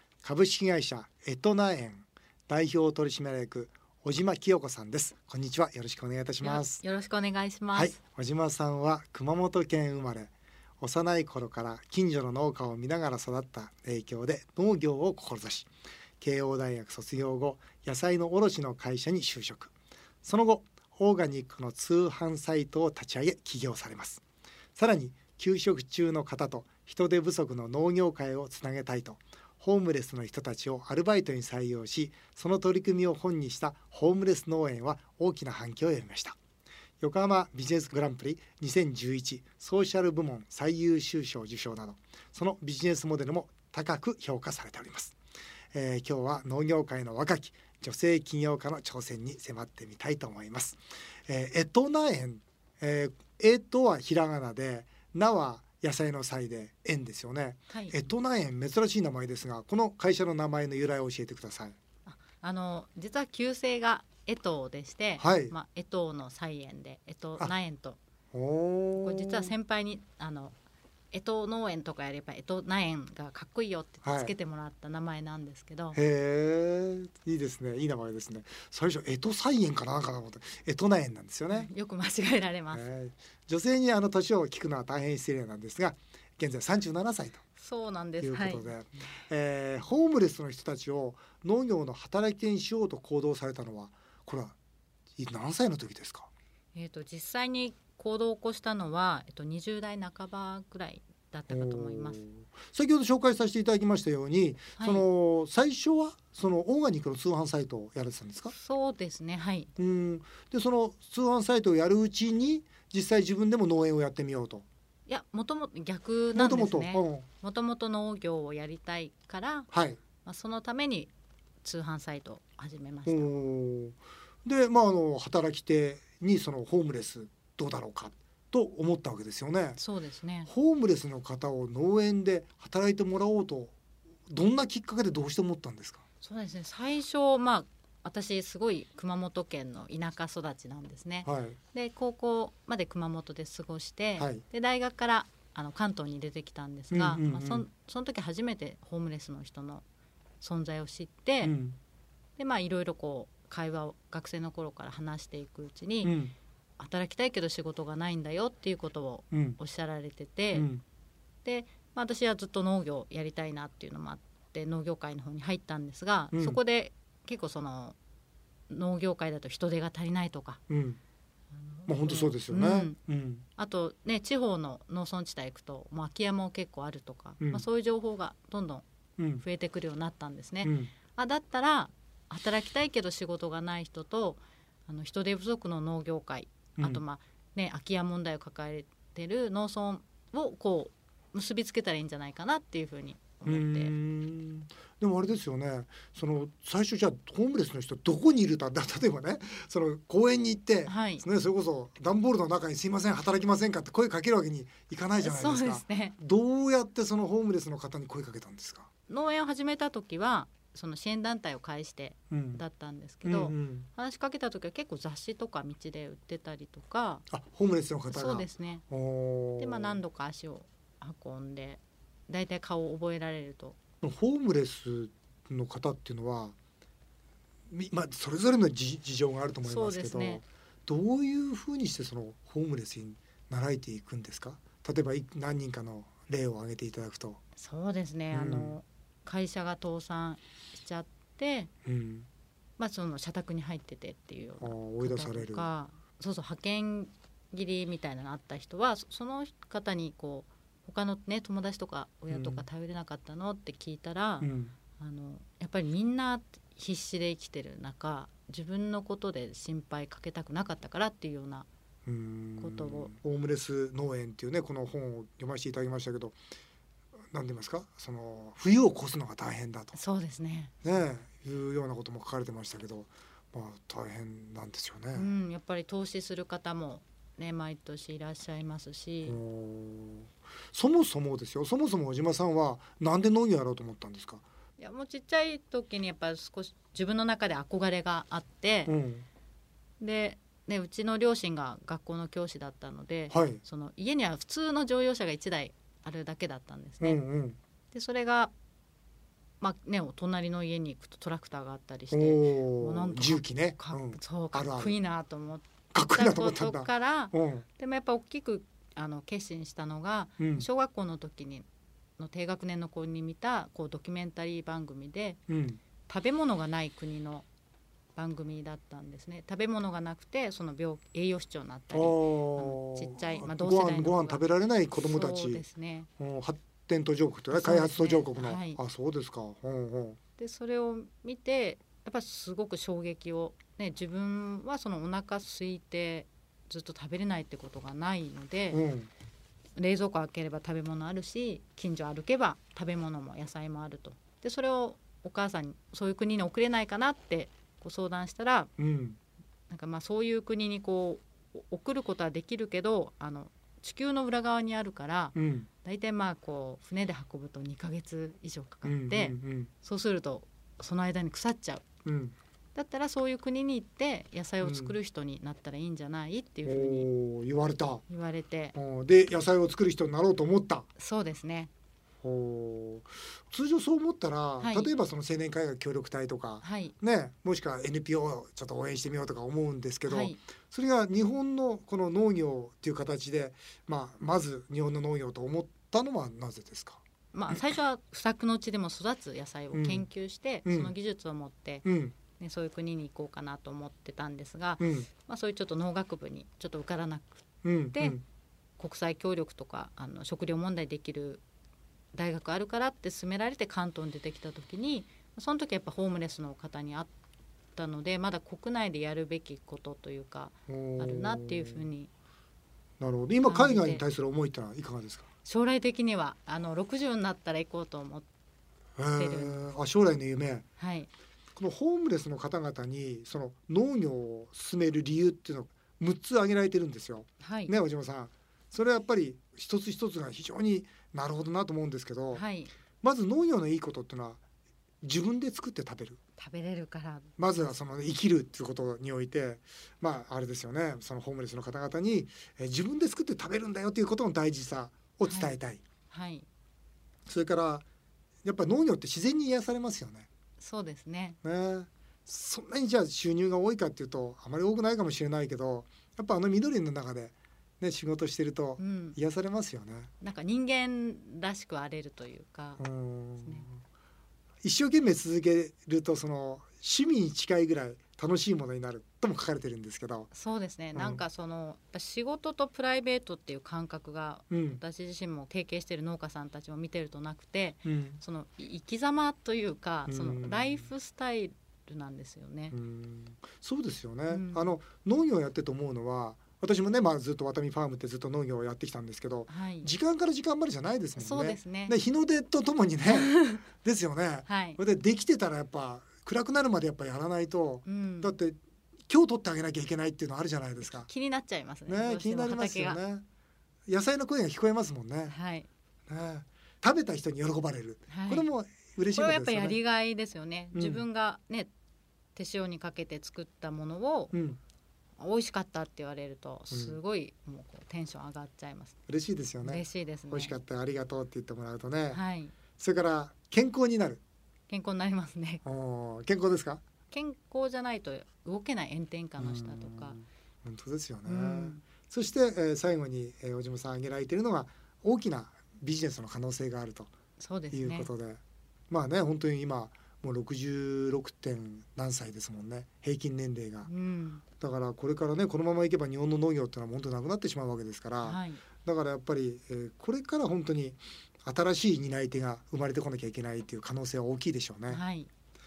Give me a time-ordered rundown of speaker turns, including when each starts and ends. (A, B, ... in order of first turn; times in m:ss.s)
0:00.2-0:06.8 A
0:06.4-0:08.0 B
0:07.7-0:15.7 A
0:16.2-0:19.7 A
0:20.2-0:24.2 A
0:24.8-0:36.4 A
0:37.0-0:45.2 A
0:45.7-1:01.8 A
0:57.7-0:58.0 B
1:02.1-1:08.0 B
1:05.2-1:05.5 A
1:08.3-1:09.5 A
1:09.0-1:10.6 B
1:11.1-1:16.0 B
1:14.0-1:14.3 A
1:15.9-1:21.7 A
1:21.5-1:22.8 B
1:22.7-1:27.4 A
1:27.6-1:28.8 B
1:28.2-1:34.6 A
1:35.2-1:36.3 A
1:36.7-1:42.2 B
1:41.5-1:48.5 A
1:44.8-1:45.0 B
1:48.5-1:49.7 B
1:49.8-1:54.6 A
1:55.1-1:59.7 B
1:56.3-1:57.3 A
1:59.7-2:00.0 A
2:00.2-2:01.1 B
2:01.6-2:03.3 B
2:03.1-2:09.8 A
2:09.8-2:10.5 B
2:10.5-2:13.8 A
2:14.3-2:16.0 A
2:16.2-2:29.8 B
2:21.2-2:21.6 A
2:26.9-2:27.7 A
2:30.4-2:31.5 B
2:31.4-2:31.8 A
2:32.4-2:36.1 B
2:36.0-2:36.3 A
2:36.8-2:40.7 B
2:39.3-2:39.6 A
2:40.5-2:40.8 A
2:41.4-2:48.0 B
2:46.3-2:46.6 A
2:48.7-2:50.6 B
2:50.7-2:51.0 A
2:51.5-2:53.0 B
2:51.9-2:53.4 A
2:53.6-2:58.8 B
2:59.2-2:59.4 A
2:59.4-3:13.9 B
3:00.6-3:00.9 A
3:06.8-3:07.0 A
3:13.5-3:28.9 A
3:20.9-3:21.2 B
3:25.2-3:26.2 B
3:29.1-3:37.2 B
3:32.3-3:32.6 A
3:33.2-3:33.9 A
3:37.3-3:40.0 A
3:38.1-3:38.8 B
3:39.6-3:43.8 B
3:44.0-3:46.6 A
3:47.7-3:57.4 A
3:49.6-3:50.4 B
3:57.6-4:01.7 B
3:58.3-3:58.8 A
4:01.9-4:02.3 A
4:02.8-4:21.7 B
4:04.6-4:05.7 A
4:12.3-4:12.7 A
4:14.4-4:14.8 A
4:22.1-4:26.4 A
4:22.6-4:23.2 B
4:27.3-4:30.0 A
4:29.9-4:30.8 B
4:30.8-4:35.3 A
4:35.2-4:39.4 B
4:39.2-4:44.4 A
4:44.8-4:48.9 B
4:48.9-4:49.3 A
4:50.0-4:57.2 B
4:53.3-4:53.6 A
4:57.0-4:57.6 A
4:57.9-4:58.5 B
4:59.6-5:11.7 B
5:02.1-5:04.9 A
5:05.9-5:07.7 A
5:10.4-5:10.7 A
5:12.2-5:15.4 B
5:15.5-5:15.8 A
5:16.1-5:17.5 B
5:18.2-5:24.4 B
5:21.9-5:25.6 A
5:25.0-5:26.1 B
5:26.2-5:30.2 A
5:27.5-5:28.8 B
5:30.4-5:38.8 B
5:38.7-5:39.1 A
5:39.8-5:48.7 B
5:48.8-5:49.2 A
5:49.7-6:01.8 B
5:55.4-5:55.7 A
5:58.8-5:59.7 A
6:02.0-6:02.4 A
6:02.8-6:07.1 B
6:04.6-6:05.0 A
6:06.7-6:08.0 A
6:08.1-6:08.8 B
6:08.8-6:10.9 A
6:11.0-6:11.7 B
6:12.2-6:27.6 A
6:14.6-6:14.9 B
6:16.6-6:17.0 B
6:20.1-6:20.4 B
6:27.3-6:31.9 B
6:29.7-6:30.1 A
6:30.6-6:30.9 A
6:31.8-6:32.1 A
6:32.4-6:38.2 B
6:34.8-6:35.1 A
6:37.6-6:38.2 A
6:38.8-6:41.4 B
6:42.1-6:47.1 B
6:47.8-6:52.1 B
6:50.7-6:51.9 A
6:53.0-6:55.3 A
6:53.4-6:54.0 B
6:55.4-6:58.3 B
6:59.0-7:00.7 A
6:59.2-6:59.6 B
7:00.8-7:01.1 B
7:01.6-7:12.4 A
7:07.4-7:07.7 B
7:12.3-7:12.7 B
7:13.0-7:14.4 A
7:15.0-7:16.2 A
7:16.4-7:17.3 B
7:17.4-7:25.8 A
7:25.2-7:25.6 B
7:26.1-7:26.5 B
7:27.3-7:27.9 A
7:28.4-7:30.3 A
7:30.6-7:31.4 B
7:31.4-7:40.1 A
7:38.8-7:39.2 B
7:40.2-7:42.8 B
7:42.8-7:43.8 A
7:43.4-7:43.7 B
7:44.6-7:50.3 A
7:50.3-8:02.8 B
7:50.9-7:51.2 A
7:54.5-7:54.8 A
7:57.8-7:58.2 A
8:00.1-8:00.9 A
8:02.7-8:18.6 A
8:04.3-8:04.8 B
8:09.5-8:09.9 B
8:11.2-8:12.0 B
8:13.1-8:13.6 B
8:14.5-8:14.8 B
8:17.8-8:18.4 B
8:19.1-8:21.1 A
8:20.8-8:23.0 B
8:21.9-8:23.2 A
8:23.9-8:25.4 A
8:25.3-8:25.7 B
8:26.1-8:29.8 A
8:28.1-8:28.5 B
8:29.1-8:31.7 B
8:30.8-8:31.1 A
8:32.4-8:34.3 B
8:34.3-8:34.6 A
8:35.2-8:39.0 B
8:36.7-8:37.0 A
8:39.1-8:42.2 A
8:39.6-8:40.6 B
8:42.1-8:42.6 B
8:42.8-8:44.2 A
8:44.7-8:45.6 B
8:45.6-8:46.8 A
8:47.1-8:50.2 B
8:49.4-8:57.1 A
8:51.2-8:51.8 B
8:57.4-8:58.1 B
8:57.7-9:03.9 A
9:03.9-9:04.4 B
9:04.6-9:15.0 A
9:08.2-9:08.6 B
9:14.9-9:15.3 B